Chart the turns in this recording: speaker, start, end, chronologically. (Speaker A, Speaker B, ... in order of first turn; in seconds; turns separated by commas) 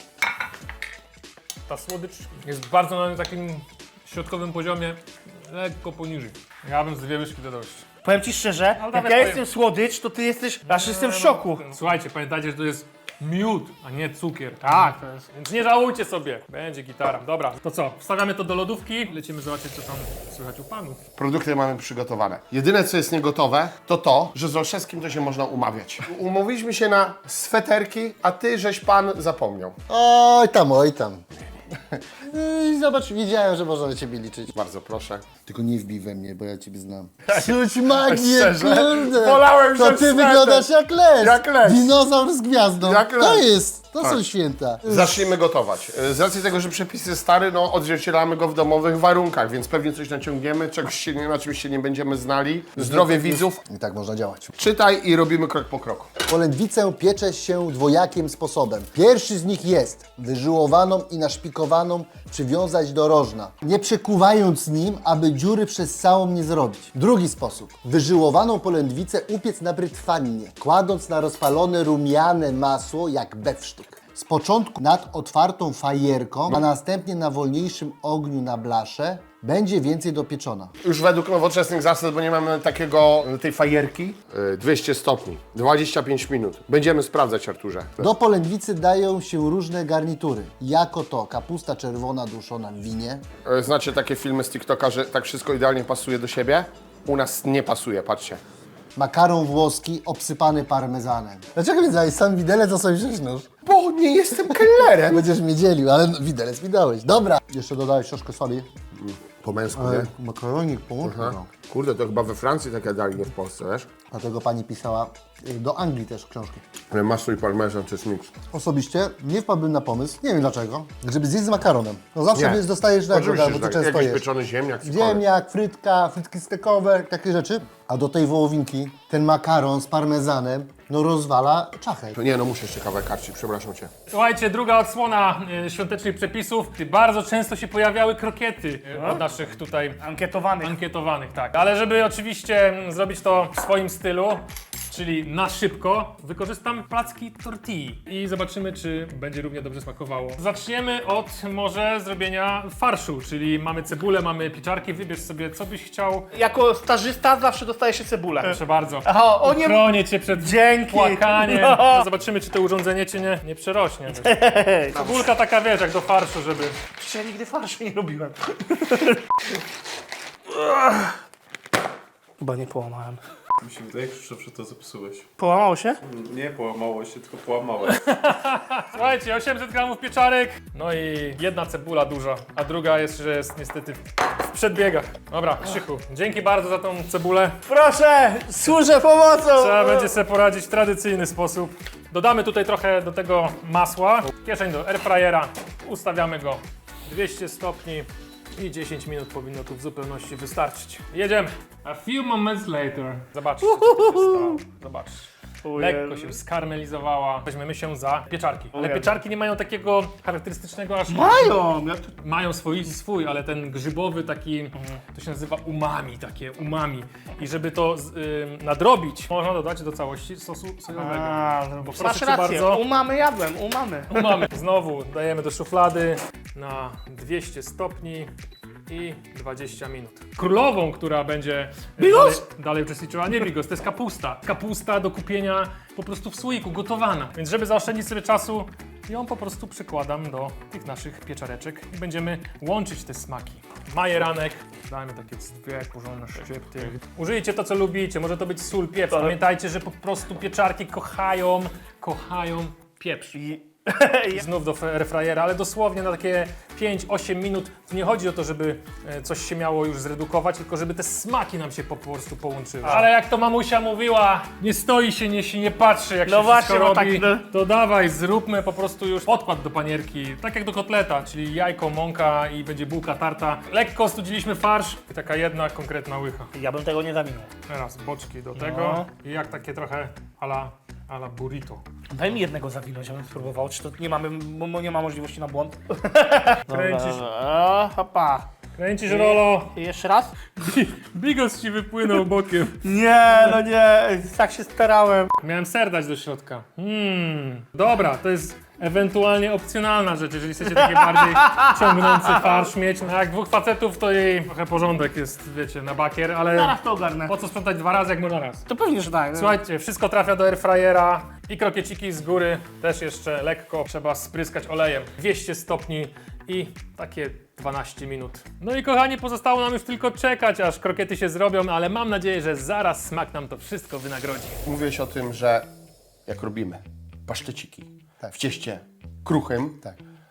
Speaker A: 1.7-7.8, Speaker B: 8.0-11.7, Speaker A: 8.8-9.4, Speaker A: 10.7-21.0, Speaker B: 14.6-15.3, Speaker C: 21.2-29.8, Speaker D: 29.9-34.5, Speaker C: 34.5-35.3, Speaker D: 35.5-45.2, Speaker C: 37.3-42.0, Speaker C: 42.8-43.5, Speaker C: 44.0-44.2, Speaker C: 44.8-53.6, Speaker D: 52.8-54.5, Speaker C: 54.6-56.1, Speaker D: 56.2-80.7, Speaker C: 80.8-88.1, Speaker D: 88.0-93.2, Speaker C: 93.5-98.4, Speaker D: 99.0-103.5, Speaker C: 103.7-105.2, Speaker D: 104.5-108.7, Speaker C: 109.0-110.1, Speaker D: 109.7-111.5, Speaker C: 111.0-113.9, Speaker D: 114.1-116.6, Speaker C: 116.9-118.3, Speaker D: 118.5-124.2, Speaker C: 122.3-125.2, Speaker D: 124.8-132.2, Speaker C: 132.2-133.9, Speaker A: 134.1-140.0, Speaker B: 138.9-139.2, Speaker B: 140.0-140.8, Speaker A: 140.6-156.3, Speaker B: 156.3-162.1, Speaker A: 158.4-164.4, Speaker B: 164.1-165.3, Speaker A: 164.9-166.8, Speaker B: 167.0-169.2, Speaker B: 170.5-171.2, Speaker B: 172.4-173.2, Speaker E: 173.6-175.3, Speaker B: 175.4-176.0, Speaker E: 176.0-178.0, Speaker A: 178.1-187.6, Speaker B: 187.7-190.1, Speaker A: 189.6-205.3, Speaker B: 203.6-204.6, Speaker B: 205.6-206.4, Speaker A: 205.8-211.6, Speaker B: 208.7-209.2, Speaker B: 211.1-212.1, Speaker A: 212.2-222.8, Speaker B: 221.0-224.3, Speaker A: 224.1-228.3, Speaker A: 228.9-253.4, Speaker B: 232.0-232.4, Speaker B: 253.3-254.4, Speaker A: 254.3-276.5, Speaker B: 262.8-263.1, Speaker B: 266.3-267.5, Speaker B: 276.5-277.5, Speaker A: 277.7-281.8, Speaker B: 278.6-279.1, Speaker B: 282.1-288.5, Speaker A: 286.7-287.2, Speaker A: 288.8-289.7, Speaker B: 289.1-290.4, Speaker A: 290.6-292.8, Speaker B: 292.8-295.3, Speaker A: 295.4-306.8, Speaker B: 300.7-302.7, Speaker B: 306.5-307.4, Speaker A: 307.3-308.6, Speaker B: 308.7-309.6, Speaker A: 309.3-324.6, Speaker C: 324.6-325.7, Speaker C: 326.3-329.9